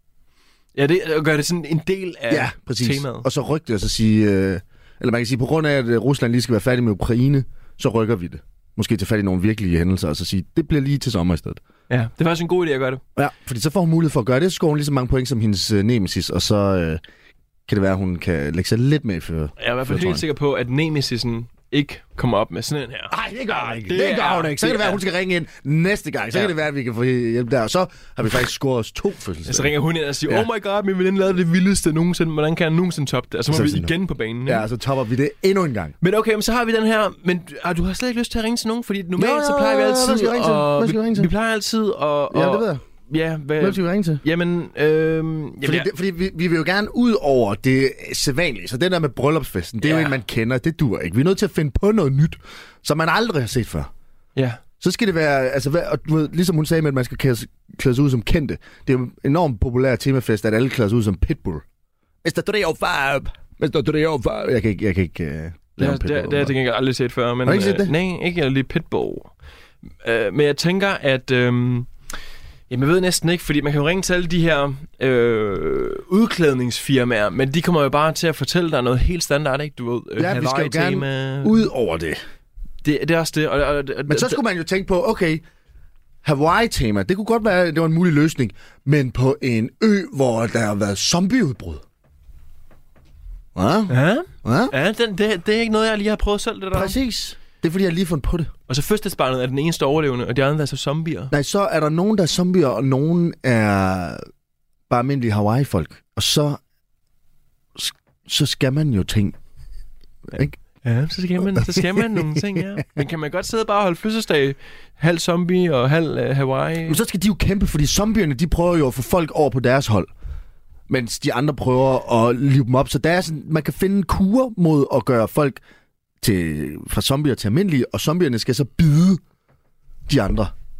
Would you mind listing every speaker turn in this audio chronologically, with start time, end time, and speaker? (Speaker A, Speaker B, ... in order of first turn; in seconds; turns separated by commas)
Speaker A: 0.8-3.3, Speaker B: 2.3-11.6, Speaker A: 11.9-13.0, Speaker B: 13.2-17.0, Speaker B: 17.7-20.2, Speaker A: 19.6-25.0, Speaker B: 23.1-29.7, Speaker A: 29.5-34.6, Speaker B: 33.5-33.9, Speaker B: 34.5-36.0, Speaker A: 36.0-45.9, Speaker B: 39.1-41.3, Speaker B: 42.3-42.8, Speaker B: 43.6-44.2, Speaker B: 45.6-53.9, Speaker A: 49.8-50.1, Speaker A: 54.4-54.6, Speaker B: 54.8-61.6, Speaker B: 62.2-66.5, Speaker A: 65.8-69.3, Speaker B: 67.4-67.9, Speaker A: 70.0-71.9, Speaker A: 72.7-81.6, Speaker B: 80.2-82.2, Speaker A: 82.8-84.4, Speaker B: 84.1-85.4, Speaker B: 86.2-91.8, Speaker B: 93.5-94.7, Speaker A: 93.9-97.0, Speaker B: 96.7-98.5, Speaker A: 98.7-101.3, Speaker B: 101.3-104.2, Speaker B: 104.9-106.6, Speaker B: 107.8-109.3, Speaker B: 110.3-110.6, Speaker A: 110.8-117.0, Speaker B: 111.5-112.8, Speaker B: 116.9-120.1, Speaker B: 120.9-125.6, Speaker B: 126.2-129.2, Speaker B: 130.1-130.5